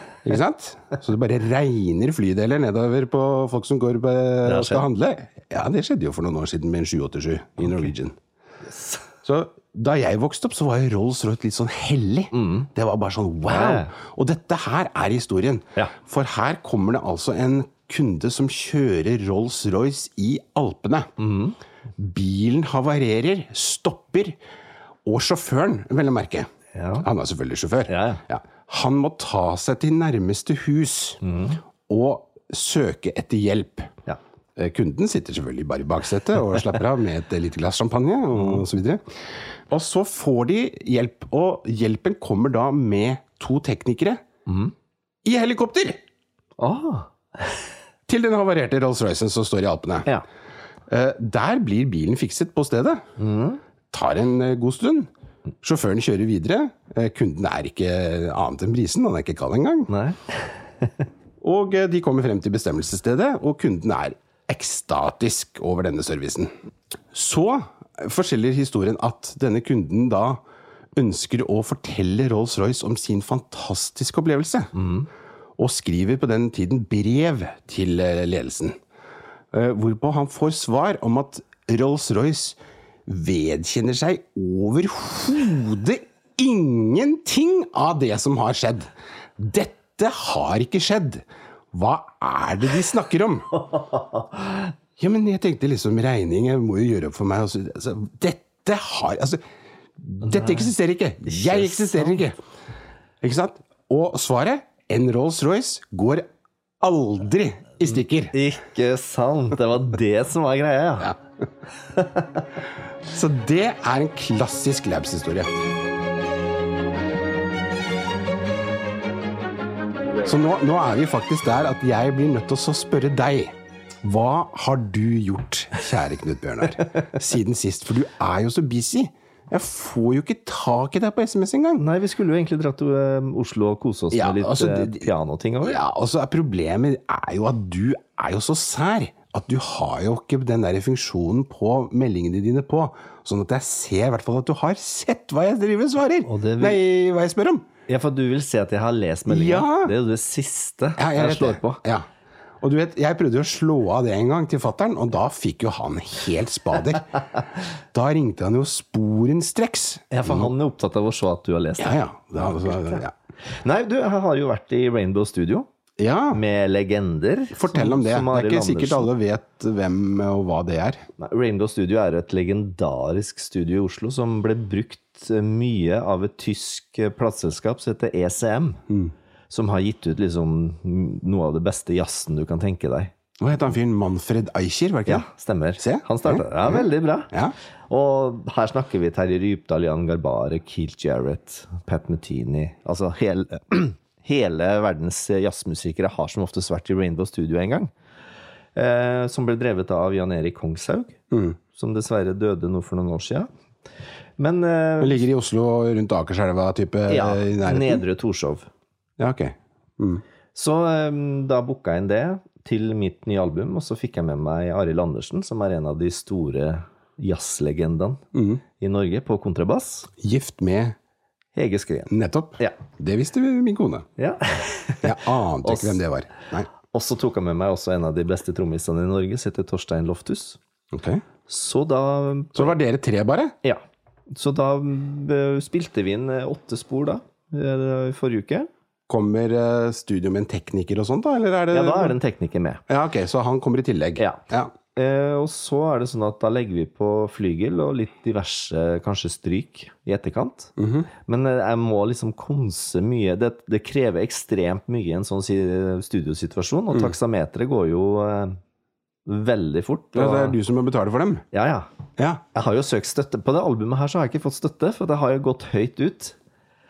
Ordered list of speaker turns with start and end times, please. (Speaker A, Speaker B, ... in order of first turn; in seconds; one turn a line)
Speaker A: 0.2-8.2
Speaker B: 4.4-4.9
Speaker B: 8.7-9.1
Speaker A: 9.2-21.1
Speaker B: 12.3-12.7
Speaker B: 13.5-13.9
Speaker B: 21.2-21.6
Speaker A: 22.0-24.4
Speaker A: 25.1-26.5
Speaker B: 26.7-27.1
Speaker A: 27.0-31.2
Speaker B: 27.9-28.2
Speaker B: 31.2-31.6
Speaker A: 31.9-33.9
Speaker A: 34.6-39.0
Speaker B: 38.4-38.6
Speaker A: 39.7-44.2
Speaker B: 44.5-44.7
Speaker A: 45.2-46.0
Speaker B: 46.6-47.6
Speaker A: 48.1-50.1
Speaker A: 50.9-53.0
Speaker B: 53.2-53.6
Speaker A: 53.9-55.1
Speaker A: 55.6-59.9
Speaker B: 59.9-60.9
Speaker A: 61.4-66.5
Speaker A: 67.1-70.4
Speaker A: 71.0-74.7
Speaker B: 74.8-75.1
Speaker A: 75.6-78.8
Speaker A: 79.5-93.5
Speaker B: 93.6-94.7
Speaker A: 95.0-99.4
Speaker A: 100.0-102.3
Speaker B: 100.2-100.7
Speaker B: 101.3-102.2
Speaker A: 103.2-106.3
Speaker A: 106.8-108.3
Speaker B: 108.3-111.2
Speaker B: 111.9-112.5
Speaker A: 113.1-115.7
Speaker A: 120.2-131.8
Speaker B: 131.8-135.8
Speaker A: 134.1-135.1
Speaker A: 135.6-147.7
Speaker B: 146.2-146.8
Speaker B: 147.9-151.8
Speaker A: 149.3-149.9
Speaker A: 151.0-152.1
Speaker A: 152.6-157.2
Speaker A: 157.9-160.5
Speaker B: 160.1-165.7
Speaker A: 161.8-163.1
Speaker A: 166.0-166.4
Speaker B: 166.3-169.1
Speaker A: 167.5-171.0
Speaker B: 171.2-178.8
Speaker B: 179.5-183.1
Speaker A: 183.4-185.2
Speaker B: 185.1-187.3
Speaker A: 185.8-187.5
Speaker B: 187.9-197.9
Speaker B: 198.8-201.2
Speaker A: 201.3-201.6
Speaker B: 201.7-203.5
Speaker B: 204.4-205.2
Speaker A: 205.0-208.0
Speaker B: 207.1-208.7
Speaker A: 209.2-210.2
Speaker B: 210.6-218.2
Speaker A: 218.3-218.6
Speaker B: 218.8-220.1
Speaker A: 220.2-221.0
Speaker B: 221.6-222.8
Speaker A: 222.1-224.1
Speaker B: 224.2-226.0
Speaker A: 225.0-226.7
Speaker B: 226.9-230.6
Speaker A: 230.9-231.2
Speaker B: 231.5-232.8
Speaker A: 232.6-233.5
Speaker B: 234.3-238.7
Speaker A: 239.1-242.2
Speaker B: 241.7-242.8
Speaker A: 242.9-244.7
Speaker B: 244.2-244.4
Speaker B: 244.9-250.7
Speaker A: 250.8-251.1
Speaker B: 251.3-258.6
Speaker B: 259.3-260.6
Speaker A: 260.1-261.4
Speaker B: 261.5-261.9
Speaker B: 262.5-266.4